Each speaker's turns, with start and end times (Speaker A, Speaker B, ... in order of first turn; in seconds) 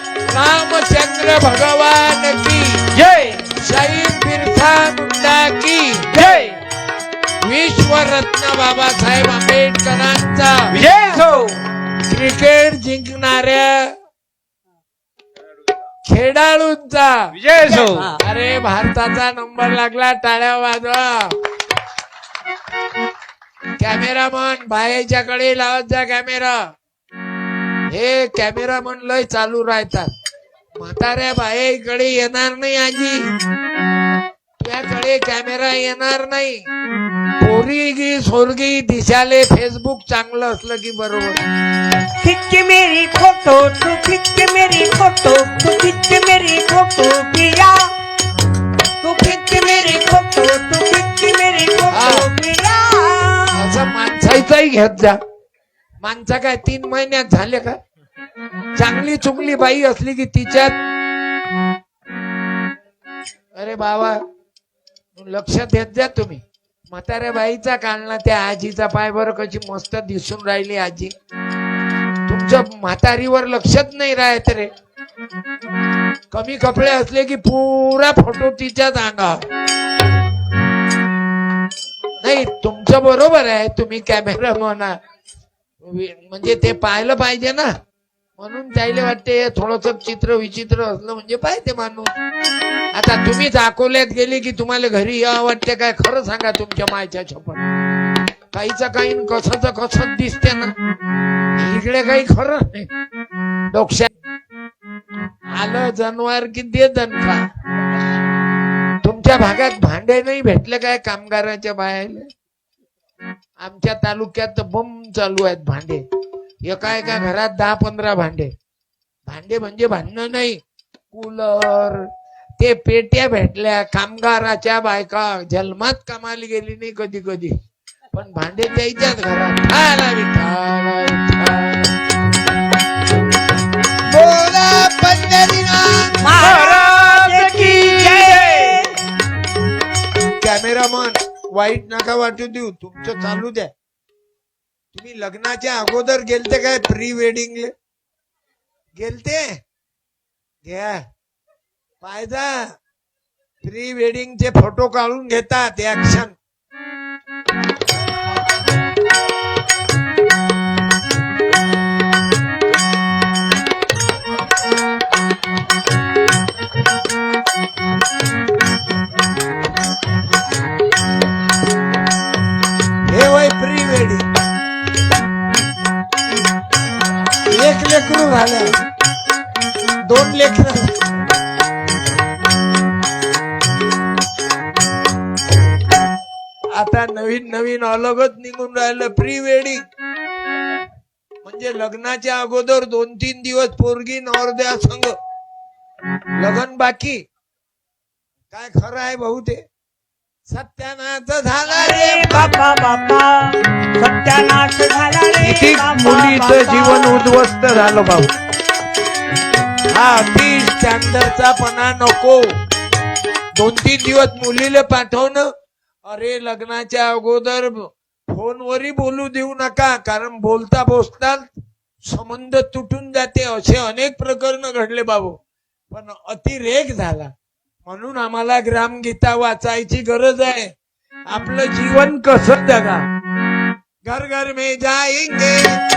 Speaker A: 0.3-2.8, 3.6-6.1, 7.4-10.8, 12.1-13.9, 16.1-17.3, 18.2-21.3, 23.8-26.6, 27.9-30.1, 30.8-33.2, 34.6-36.6, 37.4-41.4, 51.9-52.3, 53.5-55.2, 56.0-57.8, 58.8-60.7, 63.5-64.2, 65.1-71.1, 72.3-74.7, 76.3-79.4, 82.2-85.0, 85.8-87.7, 88.4-92.1, 92.9-97.6, 98.5-100.7, 101.6-102.9, 103.7-104.1, 105.5-107.4, 109.0-112.3, 113.6-116.0, 116.7-118.5, 119.3-120.6, 121.1-122.1, 122.6-127.5, 128.1-131.9, 134.1-136.2, 140.4-143.7, 144.9-147.7, 148.9-149.5, 150.6-151.0, 152.0-152.7, 153.6-156.3, 173.1-174.2, 177.5-178.7, 180.1-180.9, 186.7-189.8, 191.4-195.1, 196.4-197.2, 198.5-199.6, 200.5-202.5, 205.4-208.3, 209.9-212.5, 213.6-215.5, 216.1-221.5, 222.1-225.3, 225.9-227.3, 227.8-230.7, 231.3-233.0, 234.1-235.7
Speaker B: 2.9-3.5, 6.1-6.6, 10.7-11.6, 17.4-18.1, 136.4-138.9
Speaker C: 6.2-6.5, 17.6-18.1, 42.2-47.9, 49.0-53.7, 136.2-139.0, 201.7-207.2